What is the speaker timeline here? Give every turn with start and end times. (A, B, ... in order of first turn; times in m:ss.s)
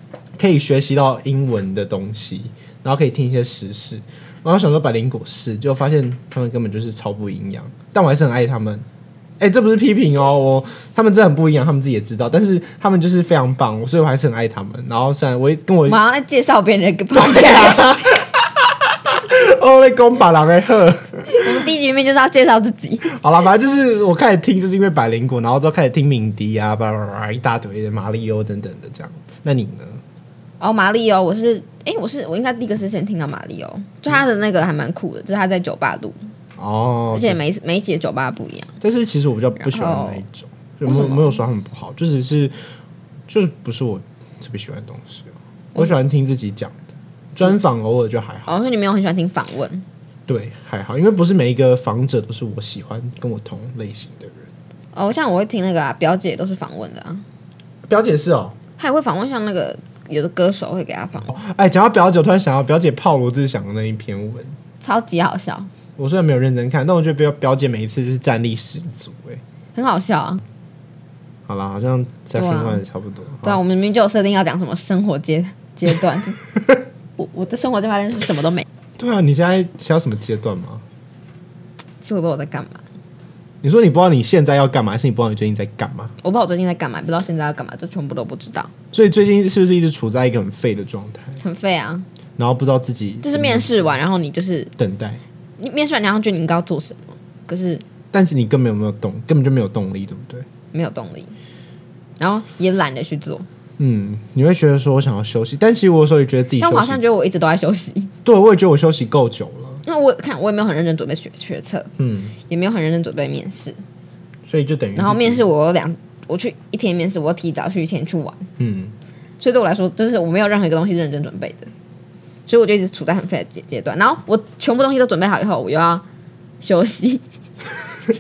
0:00.4-0:08.8 A
0:09.4-0:16.0 A
0:15.9-0:17.9 B
0:17.1-0:21.5 A
0:21.4-0:23.0 B
0:23.1-0:30.0 A
0:30.6-0:36.2 B
0:36.6-0:37.4 A
0:37.1-0:38.7 B
0:38.8-0:42.6 A
0:39.6-0:40.2 B
0:40.9-0:41.4 B
0:43.3-0:48.6 A
0:48.5-0:49.8 B
0:50.3-0:54.5 A
0:54.9-0:57.2 B
0:57.9-0:58.6 A
0:58.8-1:01.3 B
1:01.3-1:04.6 A
1:04.8-1:05.7 B
1:06.0-1:09.4 A
1:09.8-1:10.4 B
1:11.5-1:13.6 A
1:12.4-1:12.8 B
1:13.4-1:16.4 B
1:17.2-1:18.7 B
1:19.0-1:20.8 A
1:22.0-1:22.8 B
1:23.6-1:26.1 A
1:26.2-1:28.7 B
1:28.9-1:31.4 A
1:31.4-1:32.1 B
1:32.4-1:33.9 A
1:33.2-1:34.7 B
1:34.8-1:35.2 A
1:35.6-1:37.8 B
1:38.1-1:40.5 A
1:40.7-1:41.4 B
1:42.2-1:43.5 B
1:43.8-1:47.0 A
1:46.6-1:48.1 B
1:48.2-1:49.8 A
1:49.8-1:51.9 B
1:52.0-1:52.4 A
1:52.5-1:53.8 B
1:54.5-1:55.4 A
1:55.0-1:58.5 B
1:58.6-1:58.9 A
1:59.4-2:01.7 B
2:02.5-2:06.0 B
2:06.6-2:07.2 B